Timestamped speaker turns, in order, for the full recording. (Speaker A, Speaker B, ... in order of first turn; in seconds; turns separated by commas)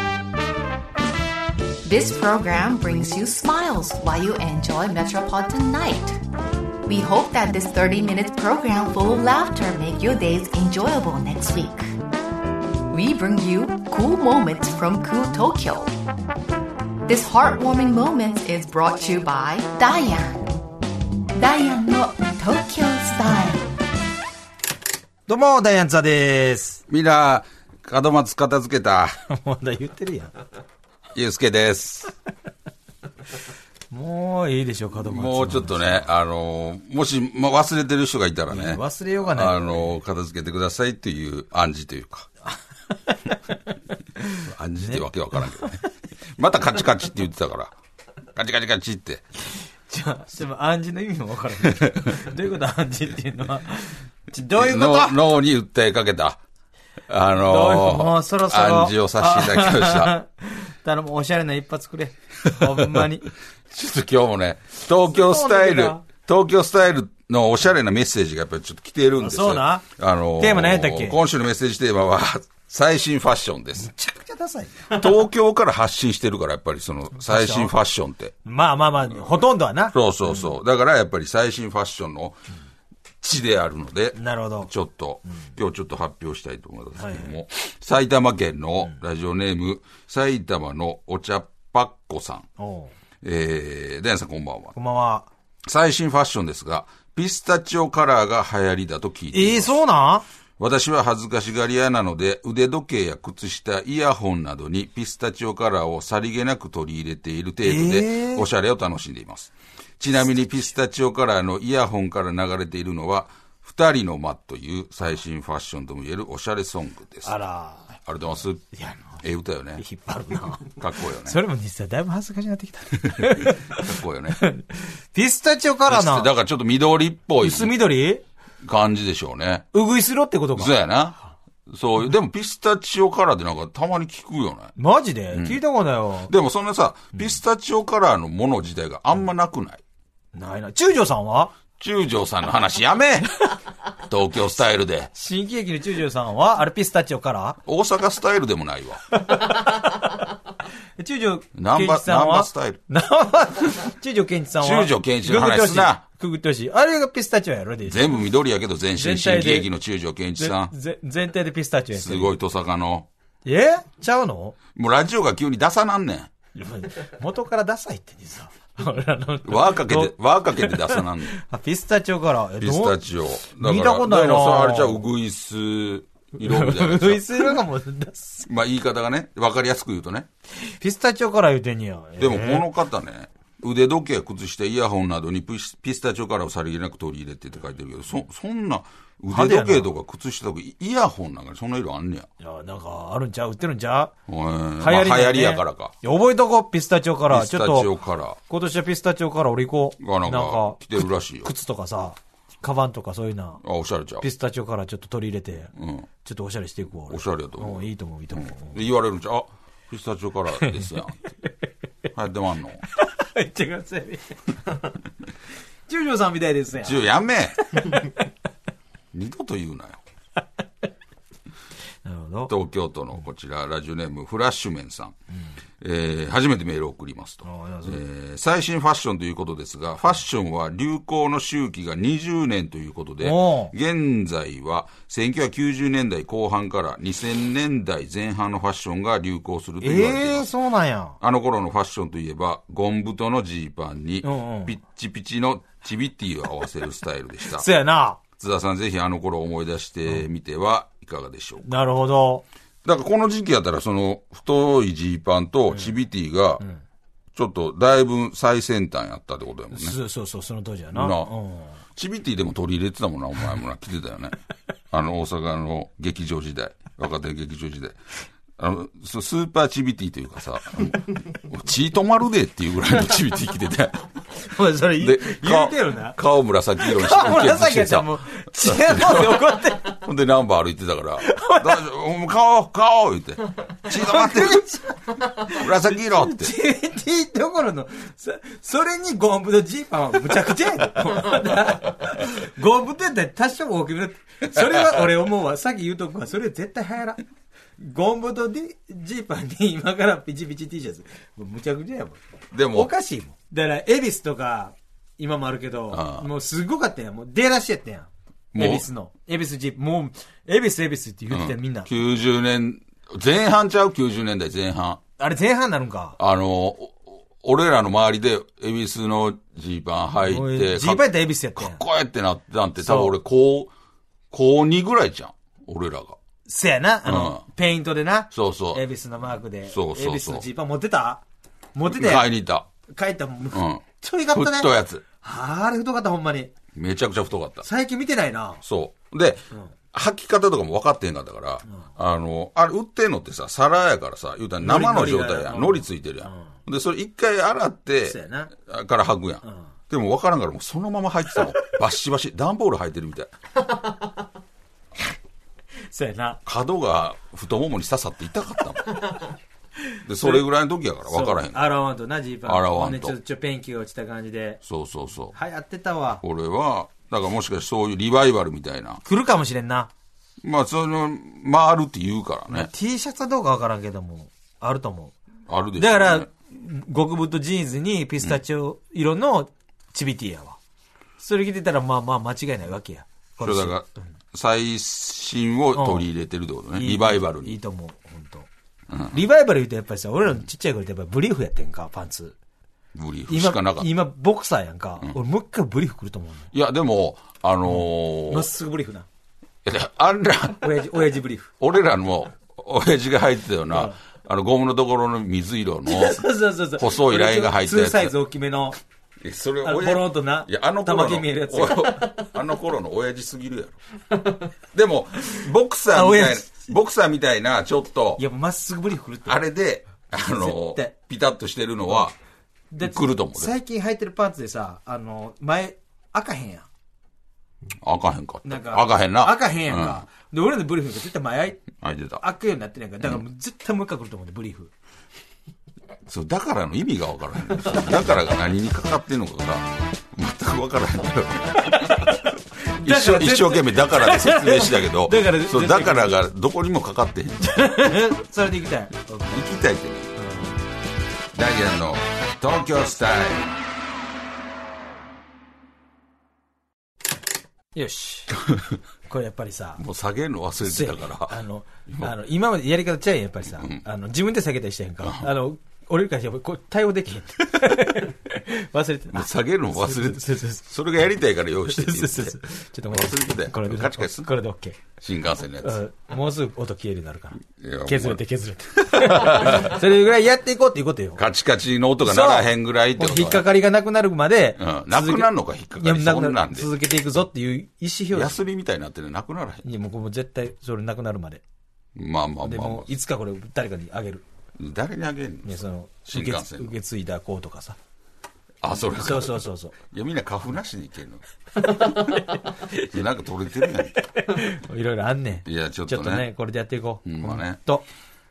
Speaker A: 1.8-6.2, Speaker A: 6.8-11.9, Speaker A: 12.9-15.9, Speaker A: 17.1-20.4, Speaker A: 21.4-23.7, Speaker B: 25.3-26.8, Speaker C: 26.9-29.2, Speaker B: 29.3-30.3, Speaker C: 31.1-32.1, Speaker B: 33.9-36.1, Speaker C: 35.0-42.3, Speaker B: 38.5-39.9, Speaker B: 43.1-43.3, Speaker B: 44.2-45.0, Speaker C: 44.4-47.7, Speaker C: 48.3-49.2, Speaker B: 49.9-55.2, Speaker C: 51.6-52.1, Speaker C: 54.5-56.4, Speaker C: 57.1-60.1, Speaker B: 57.4-63.3, Speaker C: 62.5-63.1, Speaker C: 63.7-73.9, Speaker B: 65.0-66.0, Speaker B: 69.2-69.8, Speaker B: 70.4-71.2, Speaker B: 73.8-75.2, Speaker C: 74.9-78.3, Speaker B: 77.2-77.7, Speaker B: 78.4-80.5, Speaker C: 79.9-82.4, Speaker C: 83.2-92.5, Speaker B: 84.1-84.7, Speaker B: 87.0-87.3, Speaker B: 92.6-92.9, Speaker C: 93.2-94.8, Speaker B: 94.8-95.3, Speaker C: 95.6-99.8, Speaker B: 99.3-100.2, Speaker C: 100.6-117.3, Speaker B: 107.6-108.4, Speaker B: 117.2-117.9, Speaker C: 118.0-119.8, Speaker B: 118.7-119.2, Speaker B: 119.8-126.3, Speaker C: 120.7-121.4, Speaker C: 123.0-124.4, Speaker C: 125.9-127.8, Speaker B: 127.4-128.2, Speaker C: 128.6-129.7, Speaker B: 129.7-130.7, Speaker C: 130.5-134.7, Speaker B: 134.8-136.3, Speaker C: 135.3-135.6, Speaker C: 136.3-139.8, Speaker B: 140.3-141.5, Speaker C: 141.8-143.3, Speaker C: 144.1-145.1, Speaker B: 145.1-147.6, Speaker C: 147.6-149.0, Speaker B: 149.2-150.1, Speaker B: 151.0-158.2, Speaker C: 151.6-152.8, Speaker C: 154.6-156.0, Speaker C: 157.9-160.7, Speaker B: 158.9-159.7, Speaker B: 160.4-162.3, Speaker C: 161.9-163.1, Speaker B: 163.4-164.6, Speaker C: 164.7-166.3, Speaker B: 166.6-175.0, Speaker C: 169.4-171.4, Speaker C: 172.6-177.6, Speaker B: 176.4-178.5, Speaker C: 178.4-180.3, Speaker B: 180.6-182.7, Speaker C: 182.2-192.3, Speaker B: 189.3-189.9, Speaker B: 192.4-194.1, Speaker C: 194.3-195.9, Speaker B: 194.8-197.9, Speaker C: 197.3-198.4, Speaker B: 198.5-203.6, Speaker C: 200.0-201.5, Speaker C: 203.6-204.2, Speaker B: 204.2-205.7, Speaker C: 205.7-206.1, Speaker B: 206.2-208.8, Speaker C: 207.1-211.2, Speaker C: 212.1-212.8, Speaker B: 212.9-214.9, Speaker B: 215.9-217.0, Speaker C: 216.8-217.6, Speaker B: 217.6-218.1, Speaker C: 219.1-220.0, Speaker B: 222.0-222.5, Speaker C: 222.5-225.1, Speaker C: 225.8-240.5, Speaker B: 227.4-228.0, Speaker B: 233.2-233.7, Speaker B: 239.8-241.2, Speaker C: 241.2-247.7, Speaker B: 244.2-244.7, Speaker B: 247.5-248.2, Speaker C: 248.4-251.7, Speaker B: 251.6-252.4, Speaker C: 252.8-256.6, Speaker C: 257.3-259.9, Speaker B: 259.7-261.8, Speaker C: 260.9-261.3, Speaker C: 261.9-264.4, Speaker C: 264.9-268.0, Speaker C: 268.6-274.1, Speaker B: 274.4-276.2, Speaker C: 274.9-284.7, Speaker B: 276.8-280.0, Speaker B: 281.2-281.8, Speaker B: 283.9-297.2, Speaker C: 285.5-286.5, Speaker B: 297.8-302.2, Speaker C: 302.5-302.9, Speaker B: 302.7-311.9, Speaker C: 305.9-306.3, Speaker C: 308.5-308.8, Speaker C: 311.3-315.0, Speaker B: 315.2-316.2, Speaker C: 316.2-323.7, Speaker B: 320.2-321.8, Speaker B: 322.8-323.1, Speaker C: 324.3-326.2, Speaker B: 326.4-331.2, Speaker C: 327.0-327.4, Speaker C: 328.3-328.8, Speaker C: 329.7-330.4, Speaker B: 331.7-332.3, Speaker C: 331.9-332.7, Speaker B: 332.9-336.5, Speaker C: 333.5-335.0, Speaker C: 336.7-337.6, Speaker B: 337.6-338.6, Speaker C: 338.6-353.3, Speaker B: 344.6-346.4, Speaker B: 348.0-348.5, Speaker B: 355.9-356.4, Speaker C: 356.4-359.1, Speaker B: 359.9-360.4, Speaker C: 360.1-361.6, Speaker B: 361.1-364.6, Speaker C: 362.4-363.1, Speaker C: 364.6-365.3, Speaker B: 365.3-366.2, Speaker C: 366.2-369.0, Speaker B: 369.0-369.9, Speaker C: 370.4-372.7, Speaker B: 372.5-375.1, Speaker C: 375.5-376.3, Speaker B: 375.8-380.6, Speaker B: 381.2-384.1, Speaker C: 383.4-387.6, Speaker B: 385.7-386.1, Speaker B: 386.7-388.5, Speaker C: 388.9-389.2, Speaker B: 389.1-392.3, Speaker C: 392.9-393.9, Speaker B: 393.3-396.5, Speaker C: 396.5-398.5, Speaker B: 397.7-399.1, Speaker C: 399.6-400.8, Speaker B: 400.6-401.5, Speaker C: 401.6-408.1, Speaker B: 403.7-403.9, Speaker B: 405.9-408.8, Speaker C: 409.2-413.8, Speaker B: 409.6-412.3, Speaker C: 414.7-418.2, Speaker B: 415.9-416.6, Speaker B: 418.2-419.4, Speaker C: 419.2-422.1, Speaker B: 420.1-420.9, Speaker B: 422.7-426.7, Speaker C: 422.8-423.5, Speaker C: 427.8-430.0, Speaker B: 428.4-431.6, Speaker C: 431.8-432.2, Speaker B: 432.2-434.7, Speaker C: 436.1-442.2, Speaker B: 441.6-446.1, Speaker C: 442.8-447.6, Speaker B: 447.4-449.4, Speaker C: 449.3-450.1, Speaker B: 450.2-450.5, Speaker C: 451.3-453.5, Speaker B: 457.7-458.4, Speaker B: 459.1-459.8, Speaker C: 459.8-462.1, Speaker B: 460.6-470.6, Speaker C: 465.0-465.3, Speaker C: 469.1-472.4, Speaker B: 471.7-474.8, Speaker C: 472.9-474.3, Speaker C: 475.0-475.8, Speaker B: 475.6-481.2, Speaker C: 477.6-478.2, Speaker C: 478.8-479.8, Speaker C: 481.2-483.5, Speaker B: 482.0-488.4, Speaker C: 484.6-486.7, Speaker C: 488.1-489.6, Speaker B: 489.6-491.4, Speaker C: 491.9-492.9, Speaker B: 492.4-494.2, Speaker C: 494.6-496.8, Speaker B: 495.4-497.8, Speaker C: 498.6-501.2, Speaker B: 498.9-499.7, Speaker B: 501.6-502.8, Speaker C: 502.8-503.9, Speaker B: 503.9-507.8, Speaker C: 505.4-506.3, Speaker C: 507.0-507.6